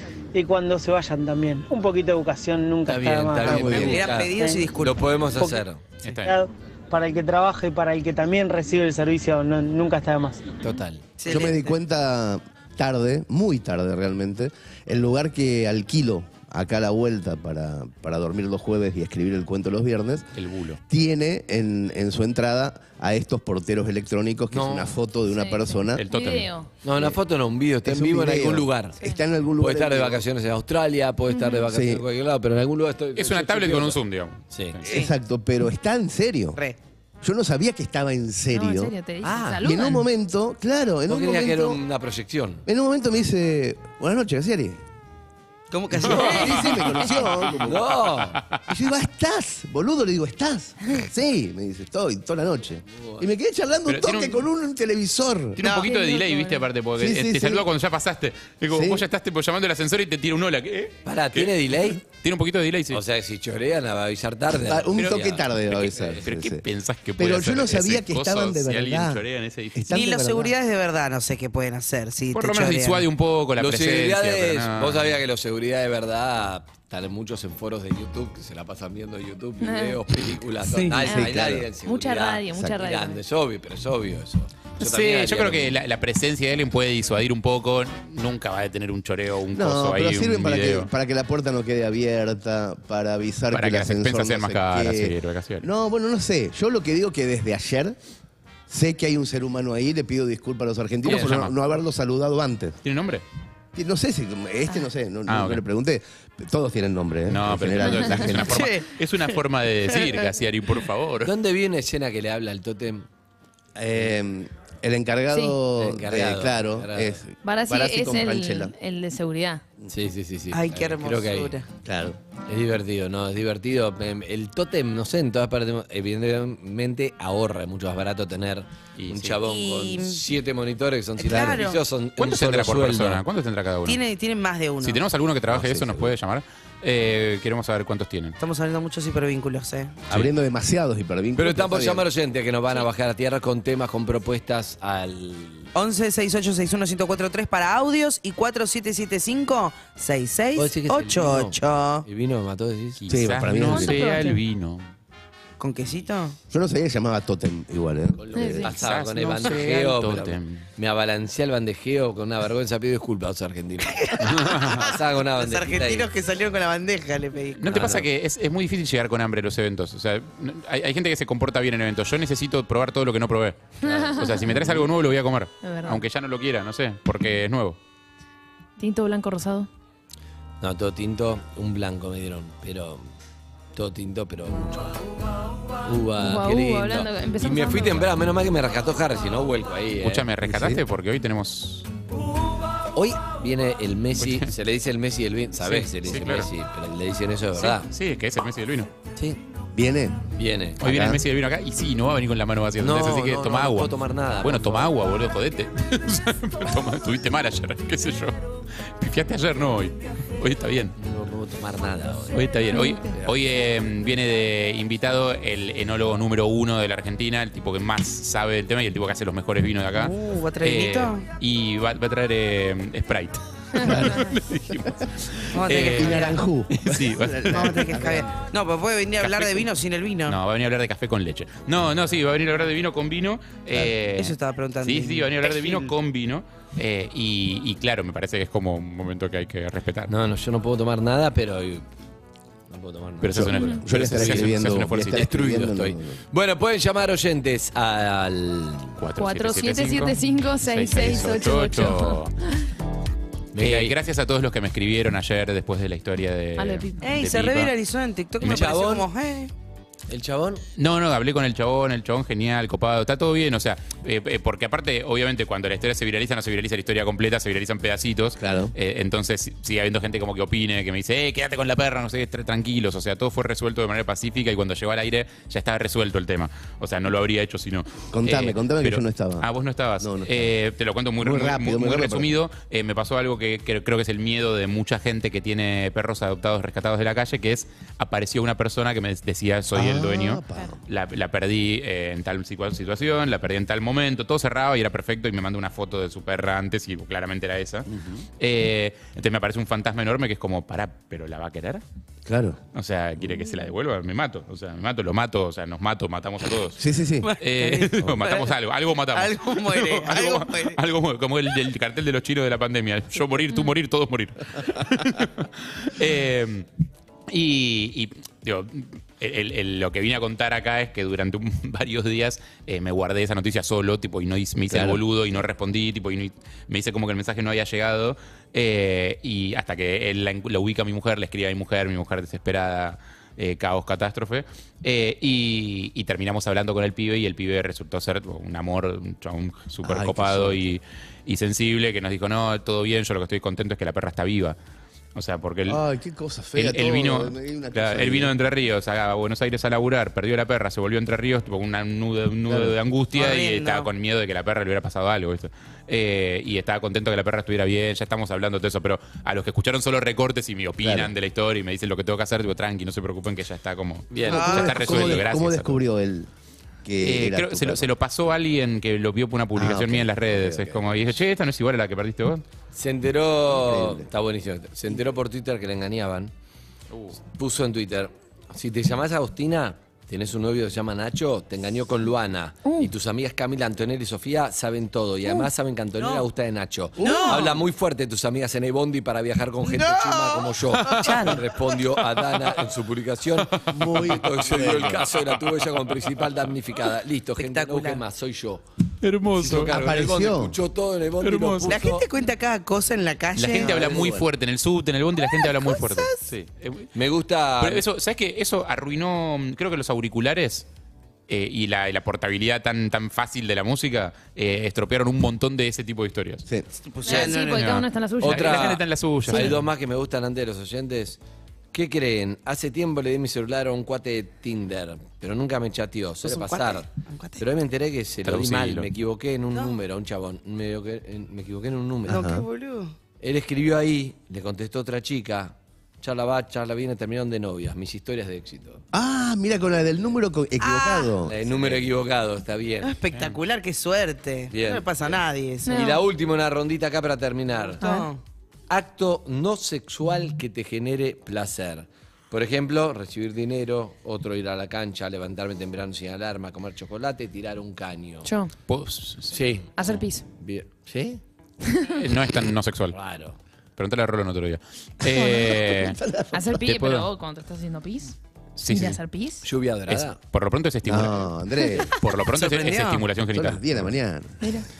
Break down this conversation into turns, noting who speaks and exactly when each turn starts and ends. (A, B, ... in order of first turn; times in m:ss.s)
0:00.3-0:04.8 A
0:02.8-0:05.9 B
0:03.4-0:04.0 C
0:03.7-0:05.1 D
0:05.4-0:10.5 A
0:06.0-0:06.3 E
0:10.6-0:11.1 B
0:11.2-0:11.7 D
0:11.2-0:20.3 C
0:20.3-0:20.8 E
0:20.9-0:26.0 C
0:24.5-0:25.0 B
0:25.3-0:26.7 F
0:26.0-0:26.5 E
0:26.8-0:29.0 B
0:27.8-0:30.2 C
0:29.6-0:34.0 B
0:31.3-0:31.6 F
0:31.7-0:32.0 C
0:33.2-0:34.8 E
0:34.5-0:34.8 B
0:34.8-0:36.6 C
0:37.2-0:38.9 C
0:38.5-0:40.0 F
0:39.2-0:39.6 B
0:39.6-0:41.8 C
0:41.1-0:42.6 B
0:42.6-0:44.8 C
0:45.7-0:46.7 D
0:46.0-0:47.9 C
0:46.1-0:46.5 B
0:47.6-0:48.4 B
0:48.7-0:55.6 C
0:53.0-0:53.3 B
0:53.9-0:54.4 E
0:55.6-1:03.0 E
0:55.6-0:55.9 D
0:55.7-0:56.7 F
0:57.0-0:57.6 C
0:58.7-0:59.0 C
1:01.0-1:02.0 B
1:02.9-1:06.2 B
1:04.5-1:06.6 C
1:05.7-1:09.9 E
1:07.2-1:09.2 C
1:09.7-1:10.5 C
1:09.9-1:13.1 D
1:12.3-1:15.2 E
1:13.6-1:25.8 B
1:19.6-1:20.0 F
1:20.7-1:21.7 C
1:21.8-1:23.2 F
1:24.8-1:30.9 E
1:29.5-1:38.0 C
1:33.5-1:35.7 E
1:38.7-1:42.8 C
1:41.0-1:41.5 B
1:41.1-1:41.4 E
1:42.8-1:43.2 E
1:43.7-1:48.7 C
1:45.3-1:45.6 E
1:47.3-1:51.3 E
1:47.9-1:48.1 F
1:48.4-1:49.4 D
1:49.9-1:50.2 D
1:51.2-1:53.0 B
1:53.8-1:58.7 C
1:55.3-1:55.6 F
1:55.8-1:57.2 B
1:57.4-1:59.6 F
1:59.9-2:01.5 B
2:00.5-2:01.7 D
2:01.8-2:02.2 C
2:02.5-2:13.2 B
2:09.0-2:09.4 E
2:09.4-2:10.2 D
2:11.2-2:11.8 D
2:12.2-2:14.0 E
2:13.8-2:15.1 D
2:14.8-2:18.4 E
2:15.5-2:16.1 B
2:18.4-2:20.0 D
2:20.1-2:22.0 C
2:21.4-2:25.7 B
2:25.7-2:32.0 D
2:30.6-2:33.0 B
2:33.0-2:34.9 E
2:33.1-2:34.0 C
2:33.6-2:34.4 F
2:35.6-2:36.4 D
2:36.5-2:38.7 C
2:38.2-2:46.1 B
2:38.3-2:38.7 F
2:38.7-2:40.6 E
2:43.9-2:47.9 D
2:44.2-2:44.9 E
2:47.6-2:57.8 E
2:47.7-2:48.1 B
2:53.8-2:54.9 B
2:53.8-2:54.4 F
2:55.6-2:56.0 F
2:58.8-2:59.7 F
3:00.6-3:03.0 B
3:03.7-3:05.0 B
3:05.8-3:10.3 B
3:06.2-3:08.0 F
3:10.0-3:11.9 E
3:10.4-3:10.8 C
3:12.9-3:17.9 B
3:14.2-3:14.5 E
3:15.6-3:16.5 E
3:17.5-3:18.9 E
3:19.7-3:20.3 C
3:20.4-3:20.8 B
3:20.8-3:30.9 E
3:20.8-3:21.2 C
3:22.8-3:24.9 B
3:31.0-3:32.5 B
3:32.3-3:47.8 E
3:32.7-3:33.0 F
3:33.0-3:33.4 B
3:39.9-3:41.3 D
3:43.7-3:44.3 F
3:43.8-3:44.1 C
3:45.5-3:46.4 D
3:45.8-3:48.3 C
3:47.5-3:50.4 D
3:49.2-3:49.6 E
3:50.3-4:00.1 E
3:54.2-3:55.9 D
4:00.1-4:01.9 B
4:02.7-4:09.0 B
4:03.2-4:05.3 E
4:03.3-4:06.2 C
4:09.0-4:12.3 E
4:09.2-4:12.2 F
4:13.5-4:14.0 B
4:13.6-4:17.7 E
4:16.6-4:17.0 F
4:17.0-4:19.5 D
4:18.4-4:19.1 B
4:18.4-4:18.8 E
4:20.1-4:20.6 B
4:20.8-4:57.9 E
4:28.4-4:28.7 C
4:38.1-4:39.5 C
4:40.0-4:40.5 C
4:41.2-4:42.3 C
4:49.7-4:50.8 C
4:57.9-4:58.2 C
4:58.4-5:01.8 E
5:02.2-5:02.6 C
5:02.7-5:06.8 E
5:06.8-5:07.3 C
5:07.2-5:08.6 D
5:07.4-5:16.7 E
5:09.1-5:10.8 D
5:17.3-5:44.6 E
5:24.7-5:25.0 C
5:39.8-5:40.6 C
5:45.1-5:45.8 E
5:45.6-5:48.3 C
5:46.6-6:05.7 E
5:52.5-5:52.8 C
5:53.1-5:53.9 D
6:00.8-6:01.1 C
6:04.1-6:04.9 B
6:04.2-6:06.3 C
6:04.3-6:05.2 D
6:06.8-6:07.9 C
6:07.0-6:12.4 E
6:09.5-6:11.0 C
6:12.7-6:16.3 B
6:13.5-6:14.1 C
6:16.9-6:17.2 E
6:17.3-6:38.6 B
6:22.6-6:22.9 F
6:26.0-6:26.2 D
6:27.0-6:27.5 C
6:27.0-6:27.5 D
6:29.6-6:31.7 D
6:33.7-6:35.1 C
6:34.6-6:35.0 E
6:37.4-6:38.0 D
6:39.0-6:39.7 E
6:39.4-6:42.0 B
6:39.4-6:40.6 C
6:41.2-6:41.8 E
6:41.7-6:44.1 D
6:43.3-6:46.9 E
6:43.5-6:44.3 C
6:45.2-6:46.2 D
6:46.9-6:47.8 B
6:47.6-6:50.6 E
6:51.3-6:56.4 E
6:56.8-6:57.7 D
6:57.0-6:58.8 F
6:57.1-6:59.6 E
6:58.2-7:01.2 B
6:59.3-6:59.6 F
7:01.7-7:06.9 B
7:06.2-7:07.4 D
7:07.4-7:12.3 B
7:08.2-7:08.9 E
7:12.1-7:12.4 C
7:12.1-7:12.9 D
7:13.2-7:18.8 B
7:18.9-7:21.8 C
7:20.6-7:21.1 D
7:21.2-7:22.9 B
7:22.8-7:25.8 D
7:23.1-7:23.4 E
7:24.5-7:27.8 B
7:25.6-7:26.0 F
7:27.8-7:28.2 D
7:27.8-7:28.1 F
7:28.7-7:38.3 B
7:38.2-7:38.5 F
7:38.7-7:39.4 E
7:39.3-7:41.2 B
7:39.8-7:40.2 F
7:41.9-7:43.0 E
7:42.9-7:43.4 B
7:43.8-7:46.0 E
7:45.1-7:45.7 F
7:45.7-7:46.5 C
7:46.3-7:48.2 F
7:46.6-7:47.1 E
7:48.6-7:49.0 E
7:48.7-7:49.4 F
7:49.4-7:50.2 B
7:49.9-7:51.3 E
7:50.8-7:51.9 C
7:51.8-7:53.6 E
7:52.3-7:53.0 D
7:53.3-7:54.4 C
7:54.4-7:54.6 F